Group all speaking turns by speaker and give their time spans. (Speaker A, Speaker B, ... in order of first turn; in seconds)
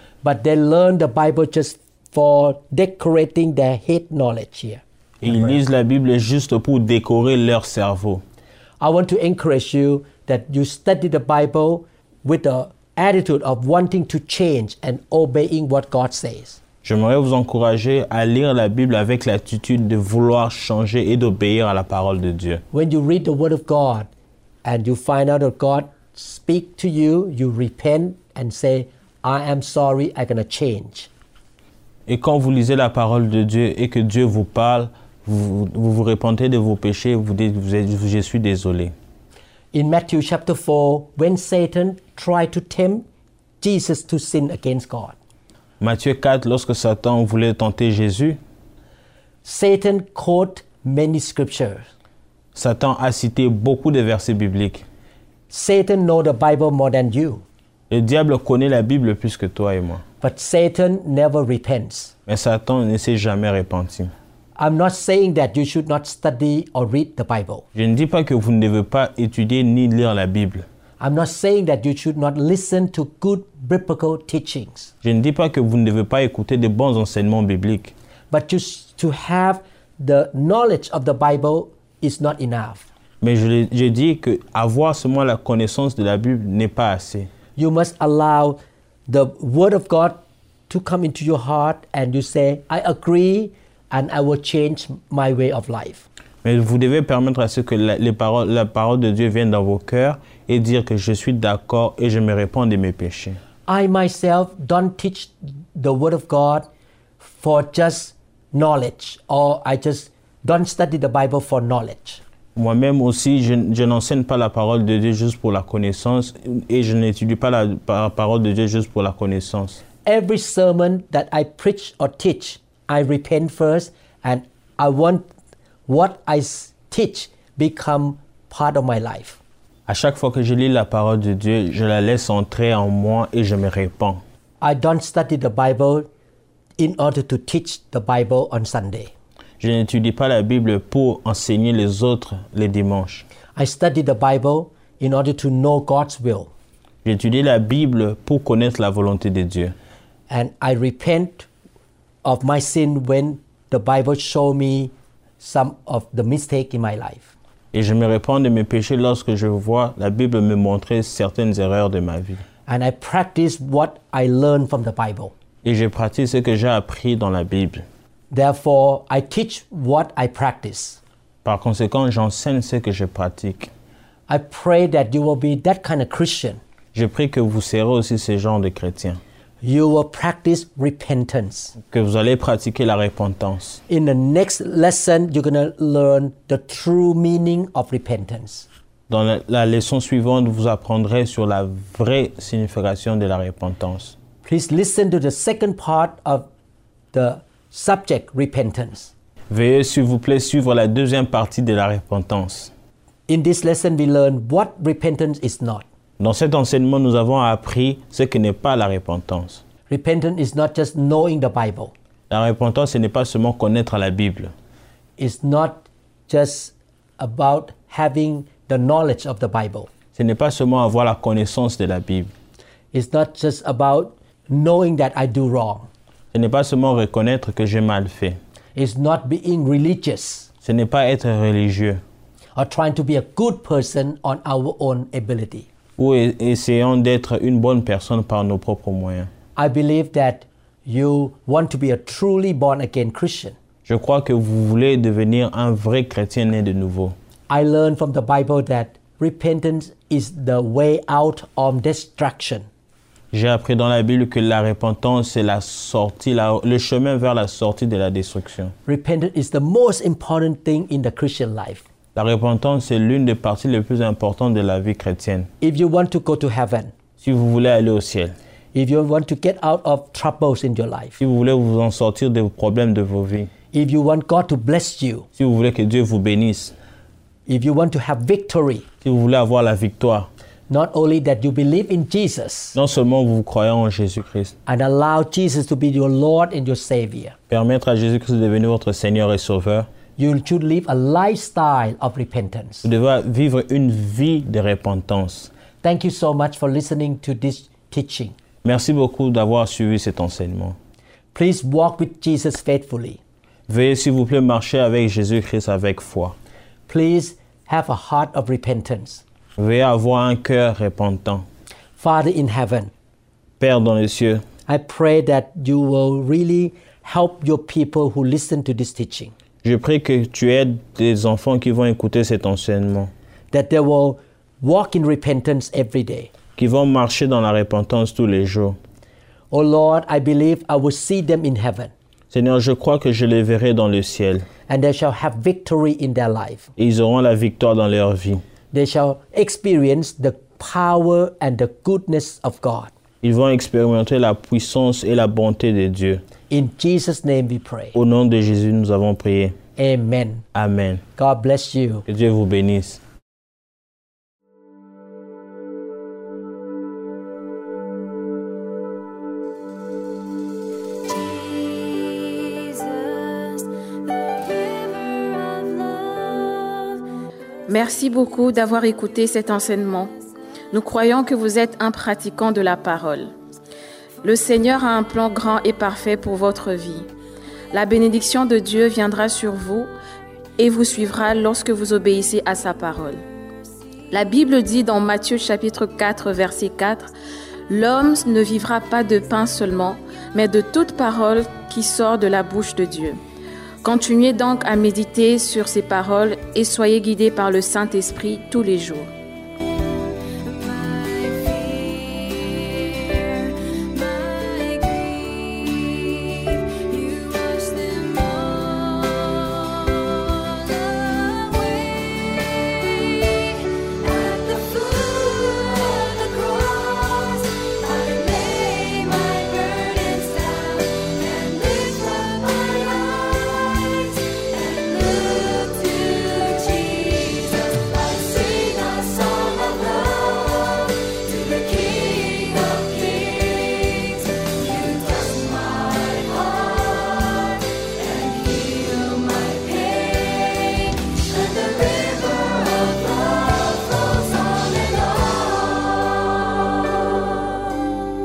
Speaker A: 0.2-5.6, 8.8-16.6, 22.7-24.1, 24.6-31.1, 39.7-43.1, 43.6-45.2, 49.4-51.9, 55.5-57.4, 60.2-62.1, 64.6-67.7, 71.0-74.9, 78.3-82.9, 87.6-96.0, 103.7-106.7, 107.2-112.2, 120.0-125.3, 125.9-129.4, 134.6-136.1, 136.8-139.1, 143.6-146.5, 150.3-151.5, 152.2-157.3, 162.7-165.3, 168.3-171.0, 174.3-176.6, 179.6-181.7, 183.9-188.7, 194.4-196.5, 197.1-199.1, 203.3-205.8, 209.9-211.9, 215.2-219.9, 222.9-225.9, 228.8-230.5, 232.6-235.7, 239.6-243.6, 247.5-252.7, 258.9-261.9, 265.6-266.9, 268.7-271.2, 273.7-275.3, 277.5-278.9, 280.7-282.8, 284.7-287.4, 290.2-292.9, 295.8-298.4, 301.3-303.2, 306.9-309.2, 312.0-312.9, 314.7-319.3, 323.5-326.3, 329.5-331.9, 334.7-336.7, 338.7-342.9, 346.5-347.9, 349.8-350.4, 351.2-352.1
Speaker B: 5.2-8.2, 16.8-22.6, 32.1-38.9, 45.8-48.4, 52.5-54.9, 57.9-60.0, 62.3-64.1, 67.8-70.7, 75.0-77.9, 83.2-87.3, 96.4-103.4, 112.6-119.8, 129.9-134.2, 139.6-143.3, 147.0-149.8, 157.7-162.4, 165.6-167.8, 171.4-173.7, 176.9-179.2, 181.8-183.8, 189.1-194.2, 199.5-202.7, 206.2-209.6, 212.3-214.5, 220.2-222.3, 226.3-228.4, 230.6-232.0, 236.0-239.3, 243.9-247.2, 253.3-258.7, 262.1-265.5, 267.2-268.4, 271.2-273.5, 275.4-276.8, 279.0-280.3, 282.8-284.6, 287.5-289.9, 292.8-295.5, 298.6-300.8, 303.7-306.4, 309.6-311.5, 313.6-314.4, 319.6-323.1, 326.6-328.8, 332.3-334.5, 336.8-338.4, 343.2-346.2, 347.9-349.6, 350.5-351.1, 352.1-353.0
Speaker C: 361.1-367.0, 400.4-447.9
Speaker D: 367.7-370.1, 370.7-373.3, 374.2-377.1, 377.7-379.9, 380.6-383.2, 384.1-387.1, 387.7-393.2, 393.8-399.1